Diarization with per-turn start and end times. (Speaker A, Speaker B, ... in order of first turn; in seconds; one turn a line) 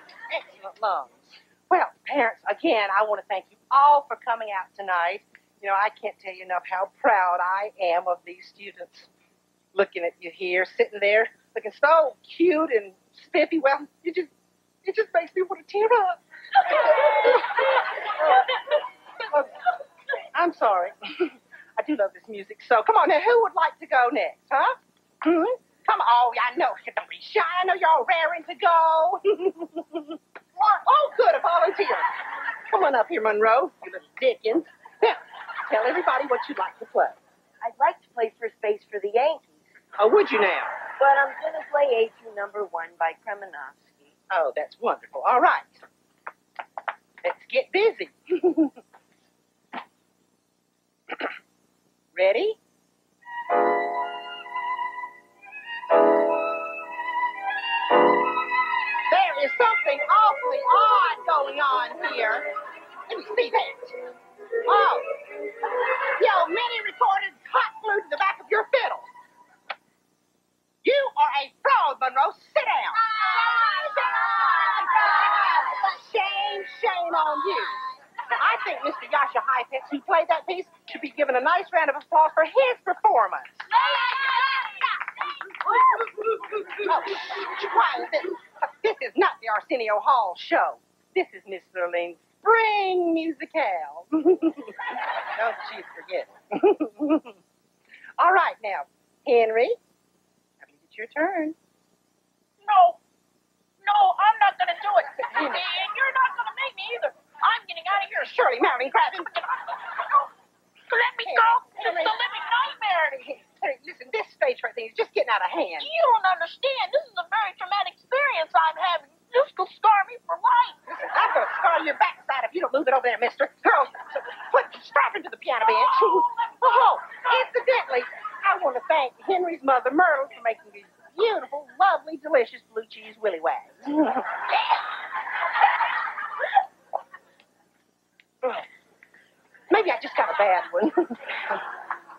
Speaker A: 0.3-9.1
Speaker A: 9.7-14.3
Speaker A: 14.8-17.6
Speaker A: 18.1-18.4
Speaker A: 19.3-19.5
Speaker A: 20.3-30.2
Speaker A: 30.7-32.0
Speaker A: 32.7-37.2
Speaker B: 37.6-39.6
Speaker A: 40.0-40.7
Speaker B: 41.0-44.0
Speaker A: 44.3-45.8
Speaker A: 47.2-48.7
Speaker A: 52.1-52.6
Speaker A: 59.1-62.5
Speaker A: 63.1-63.9
Speaker A: 64.7-65.1
Speaker A: 66.2-69.1
Speaker A: 70.8-73.0
Speaker A: 74.2-77.8
Speaker A: 78.3-83.7
Speaker A: 86.7-94.8
Speaker A: 95.3-97.3
Speaker A: 98.2-99.8
Speaker A: 100.6-101.5
Speaker C: 102.6-103.0
Speaker C: 103.8-108.3
Speaker A: 105.3-105.6
Speaker A: 108.2-109.4
Speaker C: 110.9-113.3
Speaker A: 111.2-112.2
Speaker A: 113.4-115.9
Speaker C: 115.8-120.8
Speaker A: 120.9-134.4
Speaker C: 125.6-127.5
Speaker A: 139.7-141.4